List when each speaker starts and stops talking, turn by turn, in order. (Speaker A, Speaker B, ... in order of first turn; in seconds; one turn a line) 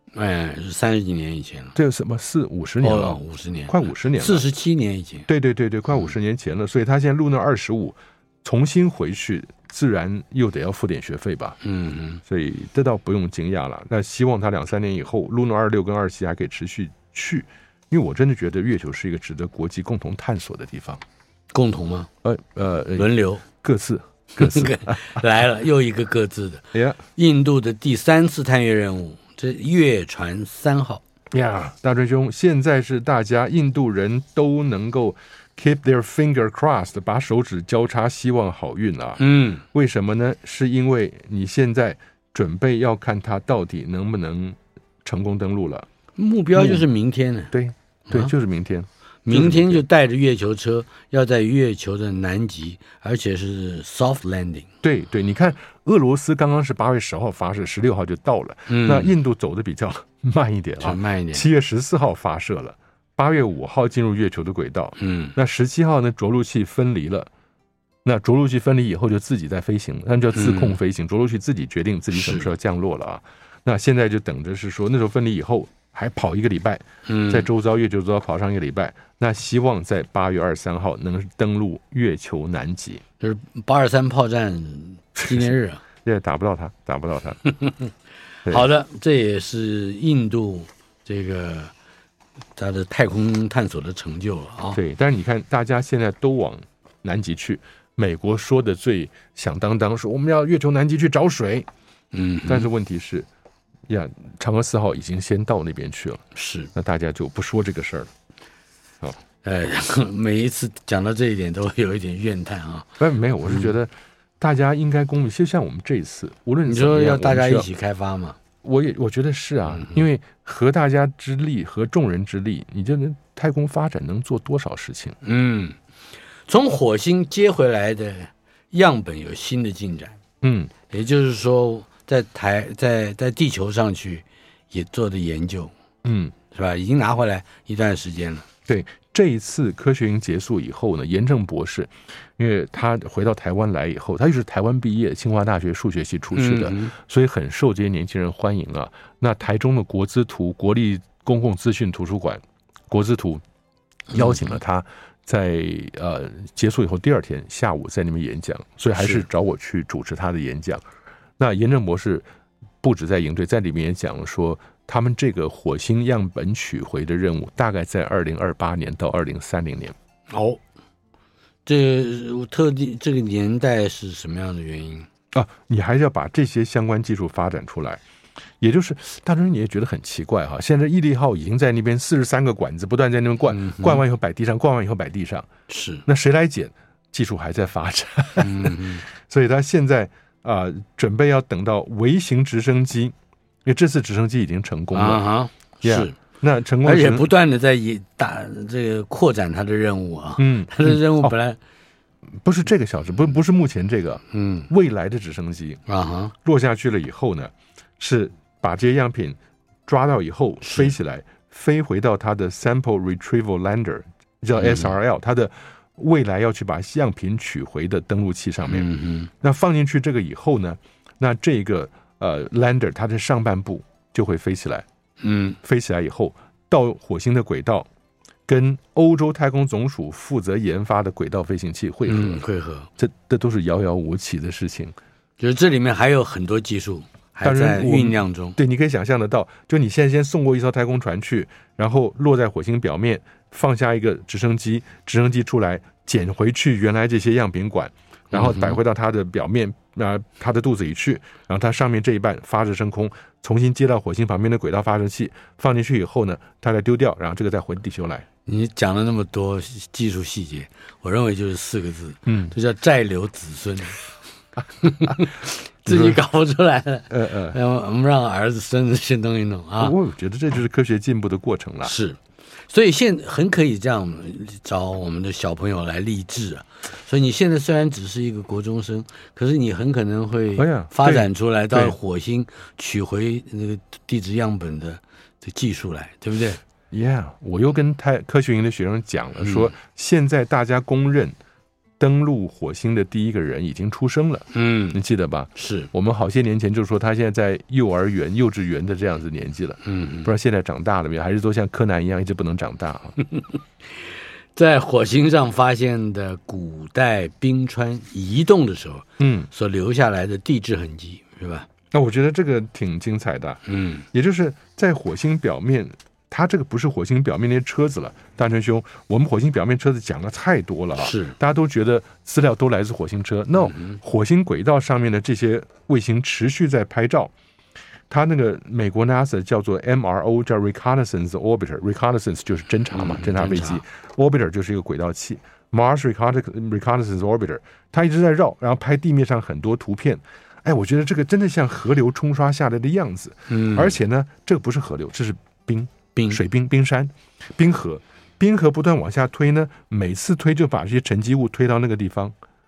Speaker A: 0.1-1.8
Speaker B: 1.7-4.5
Speaker A: 2.8-5.2
Speaker B: 5.3-11.6
Speaker A: 11.6-12.2
Speaker B: 12.3-21.0
Speaker A: 21.5-22.1
Speaker B: 22.2-25.2
Speaker A: 22.9-23.4
Speaker A: 24.4-31.0
Speaker B: 26.7-27.0
Speaker B: 31.3-45.9
Speaker A: 39.2-39.6
Speaker A: 46.1-47.5
Speaker B: 46.5-46.9
Speaker B: 47.5-49.8
Speaker A: 49.2-54.7
Speaker B: 54.8-67.3
Speaker A: 58.7-59.1
Speaker A: 60.8-61.5
Speaker A: 65.0-65.3
Speaker B: 68.0-83.0
Speaker A: 70.3-70.8
Speaker A: 72.1-72.5
Speaker A: 77.0-77.5
Speaker A: 83.2-85.8
Speaker B: 86.0-87.4
Speaker A: 87.4-87.9
Speaker A: 88.4-91.7
Speaker A: 92.6-94.8
Speaker B: 94.7-101.7
Speaker A: 102.1-102.7
Speaker B: 102.5-103.3
Speaker B: 103.9-106.2
Speaker A: 106.3-106.7
Speaker B: 106.7-108.1
Speaker A: 109.4-112.9
Speaker B: 113.0-117.7
Speaker A: 116.6-118.4
Speaker B: 118.6-125.2
Speaker A: 119.7-120.0
Speaker A: 125.2-125.8
Speaker A: 126.5-130.2
Speaker B: 130.4-130.7
Speaker A: 130.9-135.7
Speaker B: 136.0-136.3
Speaker A: 136.5-138.4
Speaker B: 138.7-153.4
Speaker A: 146.3-146.9
Speaker A: 154.1-154.5
Speaker B: 154.1-160.8
Speaker A: 159.0-159.2
Speaker B: 161.4-162.2
Speaker B: 162.8-169.9
Speaker A: 170.3-170.6
Speaker A: 171.7-175.1
Speaker B: 175.3-178.0
Speaker B: 178.6-185.5
Speaker A: 183.5-184.0
Speaker A: 185.7-186.0
Speaker B: 186.1-195.2
Speaker A: 188.4-189.0
Speaker A: 194.9-196.2
Speaker B: 195.8-197.3
Speaker A: 196.8-201.6
Speaker B: 200.4-201.3
Speaker B: 202.4-205.8
Speaker A: 204.3-204.7
Speaker A: 205.9-206.3
Speaker B: 206.4-218.9
Speaker A: 210.6-210.9
Speaker A: 214.5-214.9
Speaker A: 218.7-219.3
Speaker B: 219.4-224.8
Speaker A: 225.2-225.6
Speaker B: 225.6-227.9
Speaker B: 228.5-232.4
Speaker A: 232.1-232.9
Speaker B: 233.0-234.9
Speaker A: 235.4-238.6
Speaker B: 237.4-258.2
Speaker A: 248.3-248.8
Speaker A: 258.4-264.0
Speaker B: 262.2-262.5
Speaker A: 264.8-269.9
Speaker B: 265.9-266.2
Speaker B: 267.1-267.6
Speaker B: 269.8-271.9
Speaker A: 271.8-286.6
Speaker B: 280.6-282.0
Speaker B: 286.9-291.3
Speaker A: 289.4-289.7
Speaker B: 292.0-303.1
Speaker A: 294.5-295.0
Speaker A: 295.6-295.9
Speaker A: 299.8-300.3
Speaker A: 303.3-311.7
Speaker B: 309.2-309.5
Speaker B: 311.9-327.3
Speaker A: 313.6-314.1
Speaker A: 321.0-321.4
Speaker A: 323.6-324.0
Speaker B: 328.1-352.3
Speaker A: 332.9-333.8
Speaker A: 343.5-344.0
Speaker A: 346.1-346.4